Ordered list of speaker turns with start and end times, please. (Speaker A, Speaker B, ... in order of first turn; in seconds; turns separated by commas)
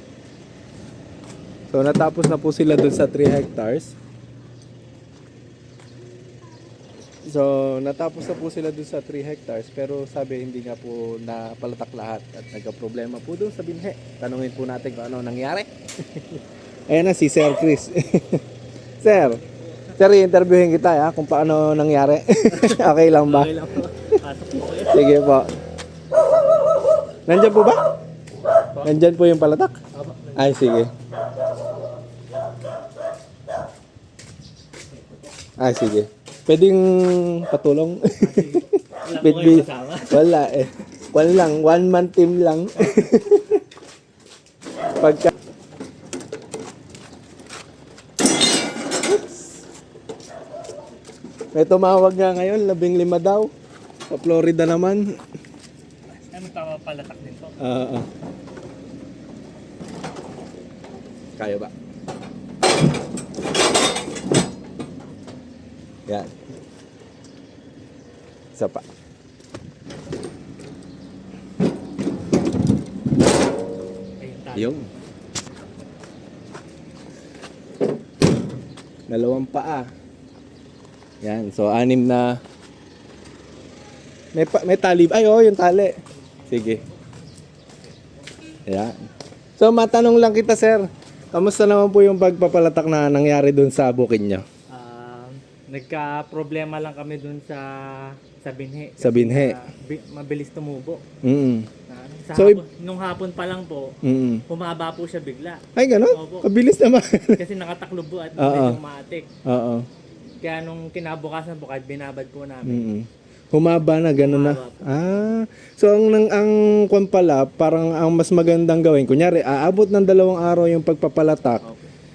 Speaker A: 1.7-3.9, Speaker A: 7.2-18.4, Speaker A: 19.0-19.4, Speaker B: 19.4-19.9, Speaker A: 20.0-23.5, Speaker B: 22.5-25.2, Speaker A: 24.8-25.5, Speaker A: 27.3-27.8, Speaker A: 28.8-29.8, Speaker B: 29.9-30.5, Speaker A: 30.4-30.9, Speaker A: 35.6-43.6, Speaker B: 38.2-40.2, Speaker A: 45.0-45.3, Speaker A: 51.5-53.5, Speaker A: 54.1-55.2, Speaker B: 56.1-57.6, Speaker A: 57.6-58.1, Speaker A: 61.4-61.7, Speaker A: 68.5-68.8, Speaker B: 74.2-74.9, Speaker A: 74.5-74.9, Speaker A: 79.1-79.9, Speaker A: 81.2-82.4, Speaker A: 84.3-85.9, Speaker A: 86.5-86.8, Speaker B: 86.5-86.8, Speaker A: 88.7-89.0, Speaker A: 89.6-94.4, Speaker B: 94.7-101.0, Speaker A: 99.0-99.6, Speaker A: 101.2-101.7, Speaker B: 101.9-104.0, Speaker A: 102.3-102.6, Speaker A: 104.0-104.4, Speaker B: 104.5-106.5, Speaker A: 105.8-107.4, Speaker B: 107.4-109.3, Speaker A: 108.4-108.8, Speaker A: 109.4-109.8, Speaker B: 110.4-112.9, Speaker A: 112.6-121.6, Speaker B: 114.1-115.2, Speaker B: 121.6-121.9